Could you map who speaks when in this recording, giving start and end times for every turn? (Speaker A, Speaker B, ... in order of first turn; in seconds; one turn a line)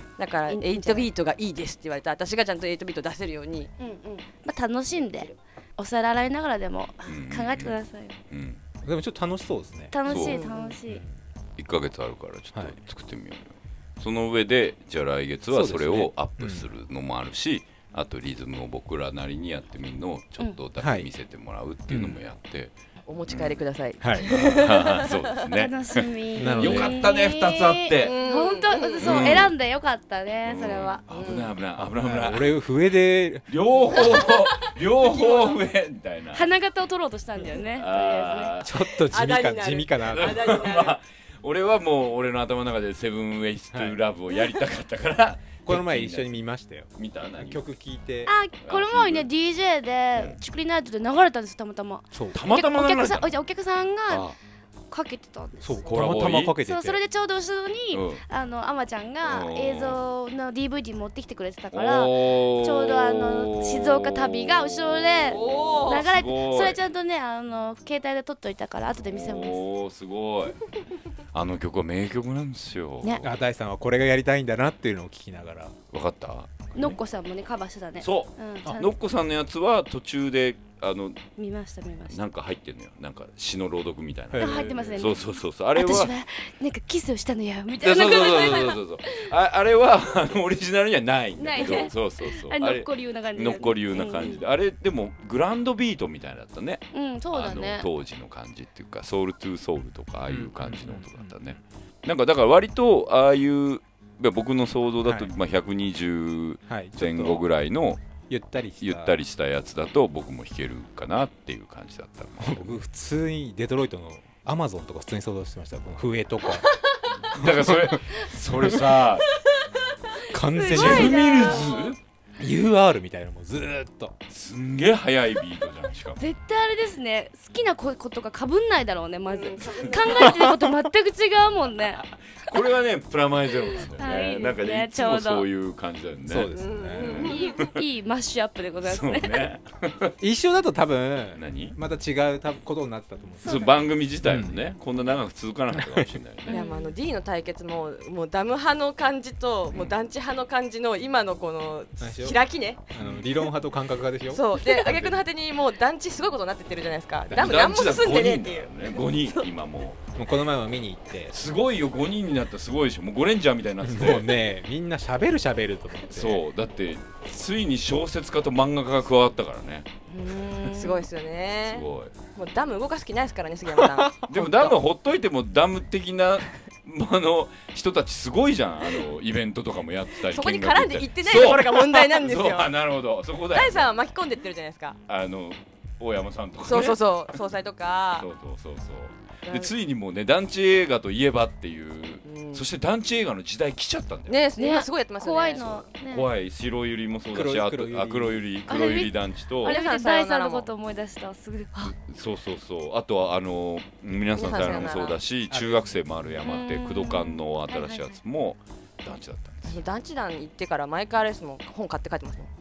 Speaker A: 0.2-3.7
Speaker B: 0.5-1.1
Speaker B: 3.8-8.1
Speaker C: 7.0-7.8
Speaker C: 8.3-8.6
Speaker D: 8.8-9.9
Speaker B: 9.9-11.0
Speaker C: 10.0-10.4
Speaker A: 10.1-10.8
Speaker C: 11.6-22.7
Speaker D: 15.5-16.6
Speaker D: 20.8-21.1
Speaker D: 21.9-22.2
Speaker A: 23.1-25.2
Speaker C: 23.3-23.6
Speaker D: 24.0-24.4
Speaker C: 24.2-28.2
Speaker B: 25.5-31.5
Speaker D: 26.4-27.0
Speaker A: 28.0-29.4
Speaker C: 29.0-29.5
Speaker C: 30.4-32.5
Speaker A: 31.1-31.5
Speaker D: 31.8-33.5
Speaker C: 33.5-36.4
Speaker A: 34.0-35.6
Speaker B: 36.3-38.6
Speaker C: 37.6-38.7
Speaker D: 38.6-40.5
Speaker A: 39.1-41.0
Speaker C: 40.0-46.3
Speaker D: 43.7-44.0
Speaker D: 45.6-48.3
Speaker C: 47.0-47.6
Speaker B: 48.2-54.3
Speaker C: 48.6-49.3
Speaker D: 52.1-52.4
Speaker C: 52.3-53.3
Speaker C: 54.1-54.4
Speaker B: 54.9-55.9
Speaker D: 55.6-57.0
Speaker C: 55.9-56.5
Speaker B: 56.6-69.6
Speaker C: 57.9-58.2
Speaker C: 59.2-60.0
Speaker C: 61.7-66.8
Speaker A: 65.3-66.1
Speaker C: 69.1-70.7
Speaker C: 71.3-73.3
Speaker D: 73.2-75.8
Speaker C: 75.9-77.0
Speaker B: 76.7-78.9
Speaker C: 78.0-81.2
Speaker B: 81.4-82.2
Speaker C: 82.1-86.1
Speaker D: 84.3-84.9
Speaker B: 84.4-88.8
Speaker C: 87.8-108.0
Speaker B: 91.4-94.4
Speaker B: 96.9-97.9
Speaker D: 100.3-101.6
Speaker D: 105.0-105.3
Speaker D: 106.7-107.4
Speaker D: 108.3-109.1
Speaker C: 108.8-112.8
Speaker D: 112.4-116.7
Speaker C: 117.3-119.3
Speaker D: 117.4-118.8
Speaker B: 120.2-121.9
Speaker D: 120.2-121.2
Speaker C: 120.7-122.0
Speaker A: 120.9-121.9
Speaker D: 122.4-124.1
Speaker C: 124.3-126.2
Speaker B: 126.2-132.5
Speaker A: 129.3-130.4
Speaker C: 129.6-130.5
Speaker C: 131.7-137.8
Speaker B: 133.6-135.5
Speaker D: 136.2-137.3
Speaker A: 136.5-137.6
Speaker B: 137.2-139.5
Speaker C: 138.8-140.1
Speaker D: 140.2-143.6
Speaker C: 141.3-141.8
Speaker B: 143.4-143.7
Speaker C: 143.4-146.6
Speaker D: 144.2-144.6
Speaker D: 145.7-146.1
Speaker B: 146.5-146.9
Speaker A: 146.5-153.0
Speaker C: 149.7-150.0
Speaker D: 152.0-152.4
Speaker D: 152.9-155.2
Speaker C: 153.0-153.3
Speaker A: 154.3-159.4
Speaker D: 157.3-157.6
Speaker C: 157.3-160.0
Speaker D: 160.2-161.3
Speaker C: 161.3-164.4
Speaker D: 163.8-166.4
Speaker C: 166.1-169.9
Speaker A: 170.1-174.2
Speaker B: 170.6-171.0
Speaker C: 171.7-172.1
Speaker D: 173.7-174.7
Speaker C: 174.3-183.9
Speaker A: 180.2-182.7
Speaker A: 183.5-185.0
Speaker C: 185.1-187.0
Speaker A: 186.6-188.3
Speaker C: 188.2-194.4
Speaker A: 189.4-189.7
Speaker A: 192.2-192.6
Speaker A: 194.3-195.9
Speaker B: 194.6-196.3
Speaker C: 196.1-199.8
Speaker D: 197.3-198.4
Speaker B: 198.7-201.9
Speaker A: 199.6-200.7
Speaker C: 201.9-209.8
Speaker A: 204.3-205.2
Speaker D: 205.5-206.0
Speaker B: 206.4-208.2
Speaker A: 209.7-212.5